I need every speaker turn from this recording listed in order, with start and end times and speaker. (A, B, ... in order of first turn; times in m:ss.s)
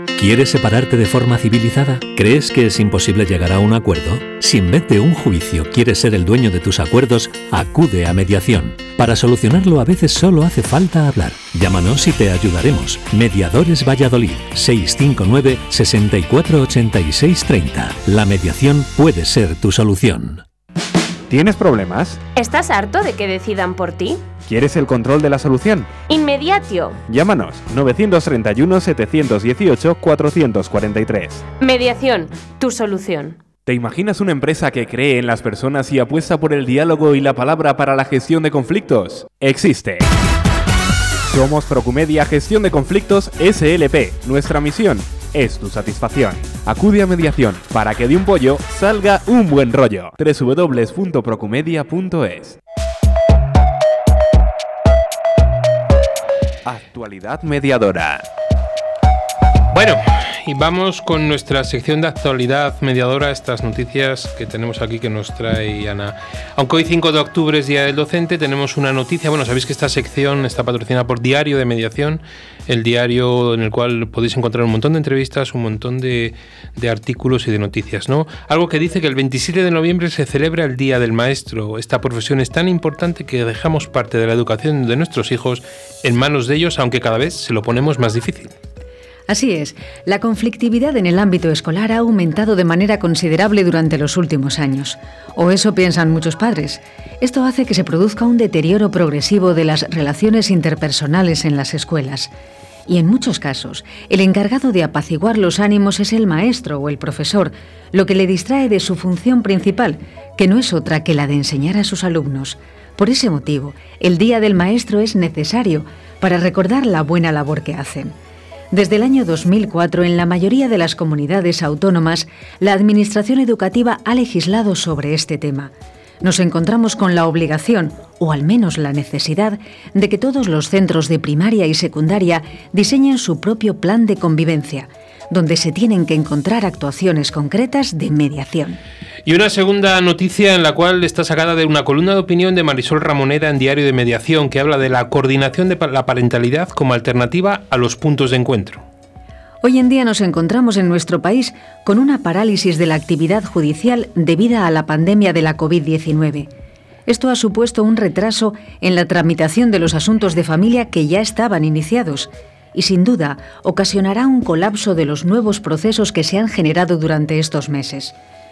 0:00.2-0:20.4 A
0:21.3-0:22.2 B
0:22.4-0:24.2 C
0:24.5-0:25.9 B
0:26.1-0:27.0 C
0:27.1-0:31.4 B
0:31.6-0:33.4 C
0:33.7-0:40.1 B
0:41.3-0:52.6 B
0:56.6-0:58.3 B
0:59.7-1:28.5 D
1:29.3-1:42.3 E
1:42.9-1:58.1 E
1:58.7-2:18.8 E
2:19.3-2:28.8 D
2:29.6-2:36.5 E
2:37.1-2:48.1 E